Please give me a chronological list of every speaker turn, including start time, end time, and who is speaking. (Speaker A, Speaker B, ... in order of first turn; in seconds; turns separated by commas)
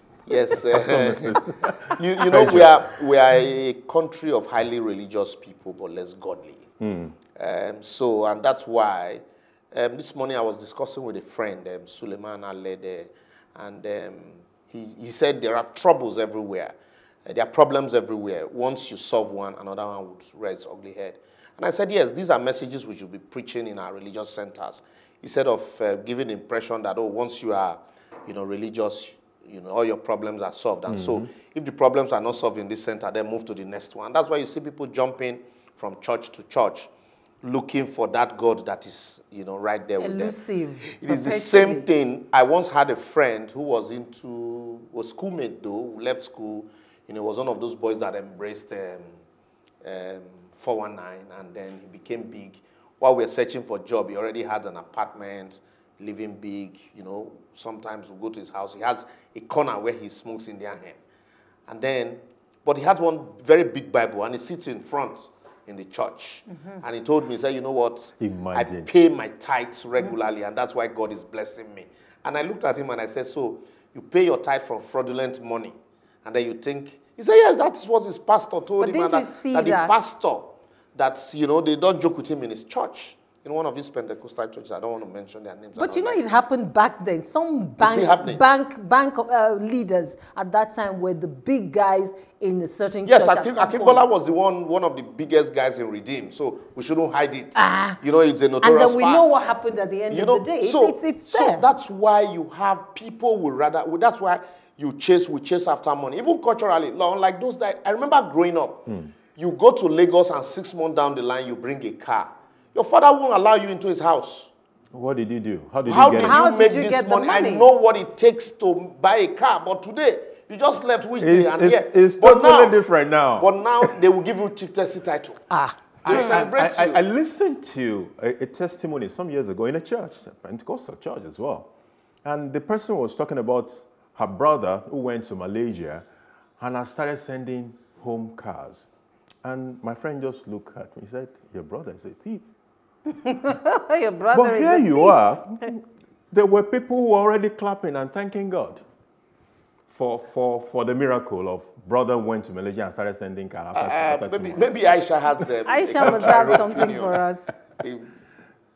Speaker A: 0.3-6.7, Speaker B: 0.7-2.8, Speaker B: 6.8-7.1, Speaker A: 7.3-36.9, Speaker B: 30.9-31.3, Speaker A: 37.4-49.2, Speaker C: 40.0-41.9, Speaker A: 49.8-61.0, Speaker A: 61.7-86.2, Speaker B: 68.2-68.9, Speaker C: 78.8-80.0, Speaker C: 85.8-94.0, Speaker A: 87.8-88.4, Speaker A: 93.0-99.5, Speaker C: 97.6-98.0, Speaker C: 98.6-101.6, Speaker A: 100.1-114.5, Speaker B: 114.9-116.4, Speaker A: 115.9-122.8, Speaker C: 116.2-117.7, Speaker B: 121.2-123.5, Speaker A: 123.4-125.4, Speaker C: 125.5-126.3, Speaker B: 126.0-131.7, Speaker A: 126.1-127.0, Speaker B: 132.2-136.1, Speaker B: 136.6-138.9, Speaker B: 139.4-142.5, Speaker C: 143.1-145.5, Speaker B: 144.3-148.8, Speaker B: 149.9-154.7, Speaker A: 153.8-157.2, Speaker C: 155.7-157.5, Speaker A: 157.8-158.1